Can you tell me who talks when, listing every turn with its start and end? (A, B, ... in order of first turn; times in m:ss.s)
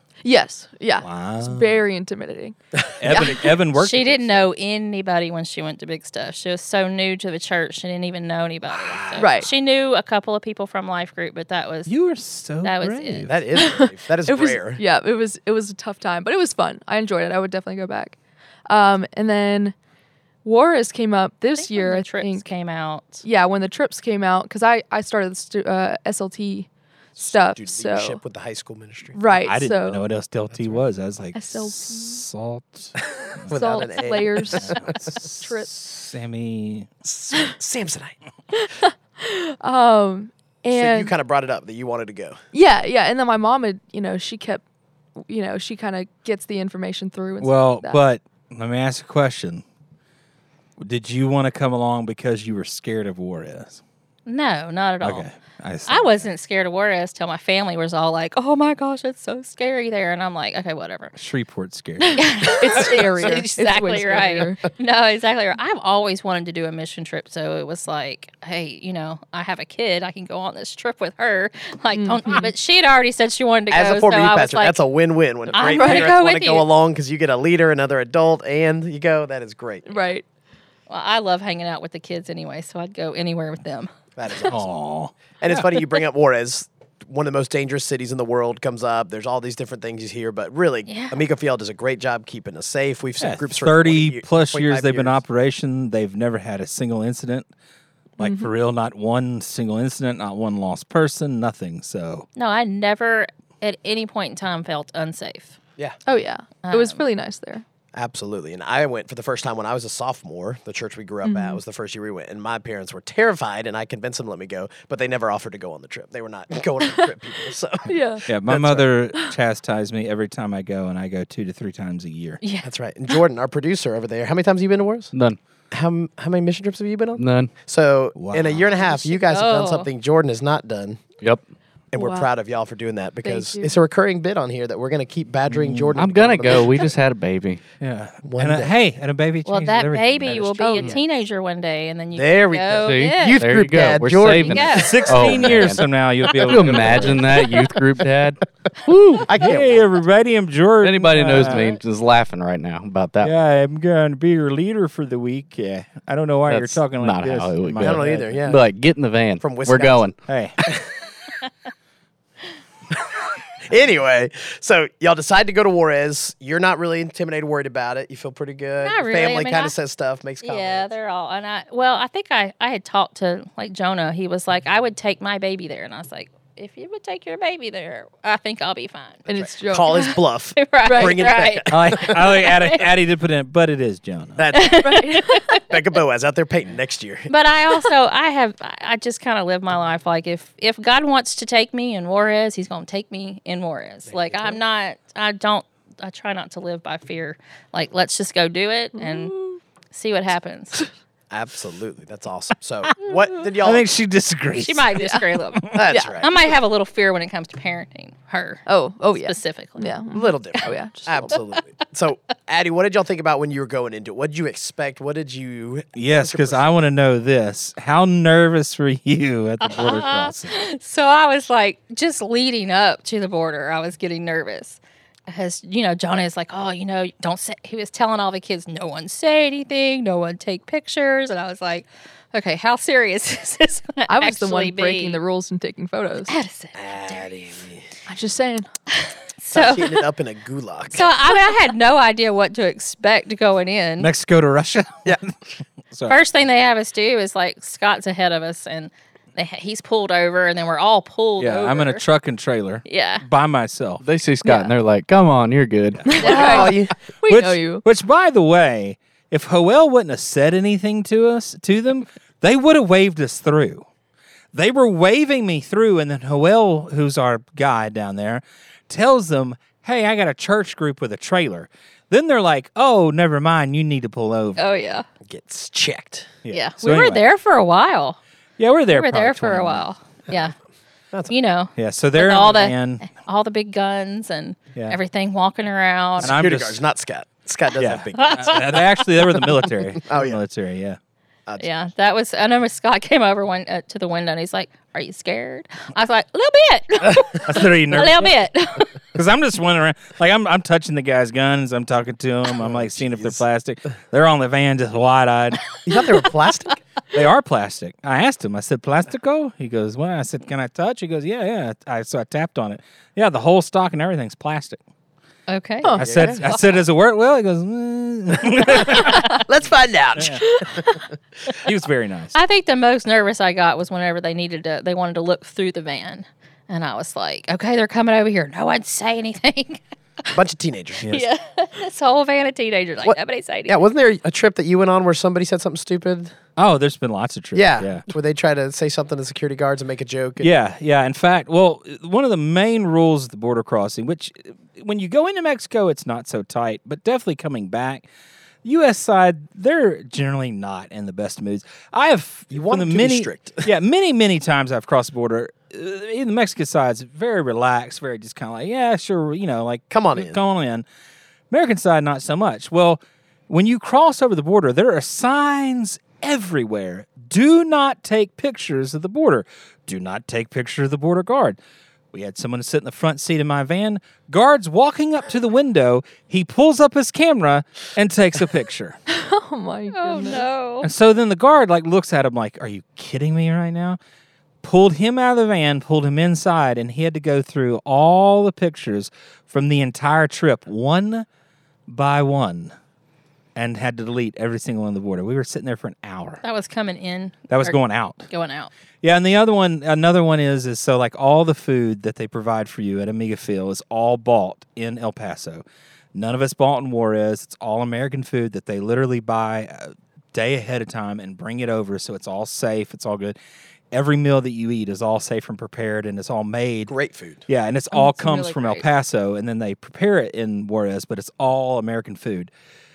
0:00.2-0:03.4 A
0:01.0-0:01.8 B
0:03.0-0:04.5 B
0:03.7-0:11.9 C
0:08.7-0:09.4 D
0:09.2-0:09.5 A
0:11.8-0:13.4 B
0:12.6-0:13.3 C
0:13.3-0:14.8 D
0:13.5-0:18.2 A
0:18.7-0:19.8 A
0:20.4-0:22.5 A
0:21.6-0:23.2 C
0:23.2-0:28.2 A
0:27.2-0:29.2 D
0:29.1-0:30.0 A
0:29.4-0:33.5 B
0:31.3-0:32.2 A
0:33.4-0:35.1 D
0:33.5-0:35.7 A
0:34.6-0:36.9 B
0:37.0-0:38.1 D
0:38.5-0:41.1 A
0:40.7-0:42.4 D
0:42.5-0:44.6 A
0:45.2-0:48.0 A
0:47.4-0:49.6 B
0:50.8-0:53.8 B
0:54.2-0:55.3 C
0:55.0-0:56.3 B
0:55.9-1:01.1 C
1:01.2-1:02.9 B
1:02.1-1:14.8 C
1:02.4-1:04.6 A
1:11.9-1:12.5 A
1:13.7-1:20.0 D
1:15.5-1:16.7 C
1:15.5-1:16.1 A
1:19.9-1:20.2 A
1:20.9-1:23.9 C
1:24.2-1:24.7 D
1:24.5-1:25.7 B
1:25.4-1:35.2 D
1:30.9-1:31.2 C
1:33.2-1:37.5 B
1:38.2-1:42.3 B
1:38.2-1:38.5 A
1:42.4-1:45.6 C
1:46.0-1:47.6 A
1:46.6-1:47.0 C
1:47.9-1:58.9 D
1:51.2-1:51.6 A
1:57.9-1:58.2 A
1:58.3-2:02.4 B
2:02.4-2:02.7 C
2:02.6-2:05.1 D
2:05.1-2:05.4 E
2:05.7-2:11.0 D
2:07.2-2:07.5 E
2:08.2-2:08.8 B
2:09.0-2:09.9 C
2:11.9-2:16.9 D
2:11.9-2:12.3 A
2:13.2-2:13.8 A
2:15.5-2:15.9 B
2:15.9-2:17.6 E
2:17.8-2:20.6 B
2:18.2-2:18.7 D
2:19.4-2:23.5 C
2:20.6-2:21.0 A
2:22.1-2:25.6 D
2:22.8-2:29.4 E
2:24.4-2:25.4 C
2:24.8-2:27.4 B
2:29.2-2:29.9 D
2:29.4-2:31.7 B
2:30.8-2:33.3 E
2:33.2-2:38.4 B
2:36.5-2:40.2 E
2:37.8-2:38.6 D
2:39.4-2:40.1 D
2:40.3-2:40.6 B
2:43.6-2:50.9 D
2:48.8-2:49.7 C
2:50.4-2:59.2 C
2:59.3-3:00.2 A
2:59.3-3:02.4 D
2:59.9-3:02.8 C
3:00.8-3:01.4 A
3:01.7-3:04.4 B
3:04.4-3:04.9 D
3:04.5-3:05.6 C
3:04.8-3:05.6 A
3:05.7-3:07.3 D
3:07.3-3:20.9 C
3:14.1-3:14.6 D
3:19.0-3:19.6 A
3:21.3-3:23.9 D
3:23.6-3:25.8 B
3:24.6-3:29.9 C
3:25.0-3:25.2 A
3:25.7-3:26.3 D
3:25.9-3:26.2 A
3:28.7-3:31.4 A
3:30.1-3:36.8 D
3:35.9-3:40.6 B
3:39.6-3:55.2 C
3:54.1-3:56.3 A
3:56.3-3:57.5 C
3:56.7-3:57.8 D
3:58.1-3:58.7 A
3:58.9-4:00.0 C
3:59.5-4:01.0 D
4:00.9-4:04.1 C
4:04.0-4:05.3 B
4:05.9-4:06.2 B
4:06.1-4:12.0 C
4:11.4-4:14.0 B
4:12.8-4:13.2 C
4:14.0-4:16.2 E
4:14.4-4:14.7 A
4:16.1-4:17.8 A
4:16.2-4:16.8 C
4:16.2-4:16.9 D
4:17.3-4:23.9 B
4:24.5-4:34.6 B
4:34.6-4:35.0 C
4:35.2-4:36.3 D
4:36.4-4:37.2 B
4:36.5-4:38.2 C
4:38.6-4:39.8 B
4:38.9-4:40.5 C
4:41.3-4:46.3 C
4:41.8-4:43.0 B
4:46.2-4:46.8 B
4:46.2-4:48.8 D
4:47.8-4:51.0 B
4:48.2-4:49.0 C
4:50.0-4:50.4 D
4:51.6-4:58.9 C
4:57.4-4:58.3 B
4:59.1-5:05.6 B
5:02.6-5:03.4 D
5:05.8-5:06.8 D
5:07.1-5:14.8 B
5:15.5-5:16.5 C
5:15.9-5:16.4 D
5:16.0-5:19.4 B
5:18.7-5:21.0 D
5:20.2-5:20.4 B
5:21.6-5:22.3 B
5:22.3-5:30.3 C
5:30.3-5:31.2 D
5:31.1-5:33.8 C
5:33.0-5:36.3 D
5:36.6-5:38.0 B
5:37.5-5:40.5 D
5:40.4-5:48.0 B
5:48.6-6:00.8 B
5:52.5-5:53.7 D
5:59.9-6:00.4 D
6:01.5-6:11.6 B
6:12.1-6:19.0 B
6:19.1-6:20.4 A
6:19.9-6:20.9 C
6:20.8-6:24.0 B
6:24.6-6:31.2 B
6:31.9-6:32.7 B
6:33.5-6:36.4 B
6:36.4-6:38.7 C
6:37.5-6:38.3 B
6:39.0-6:53.4 B
6:53.9-6:56.9 B
6:56.9-6:57.4 D
6:57.5-7:02.5 B
6:57.9-6:58.8 A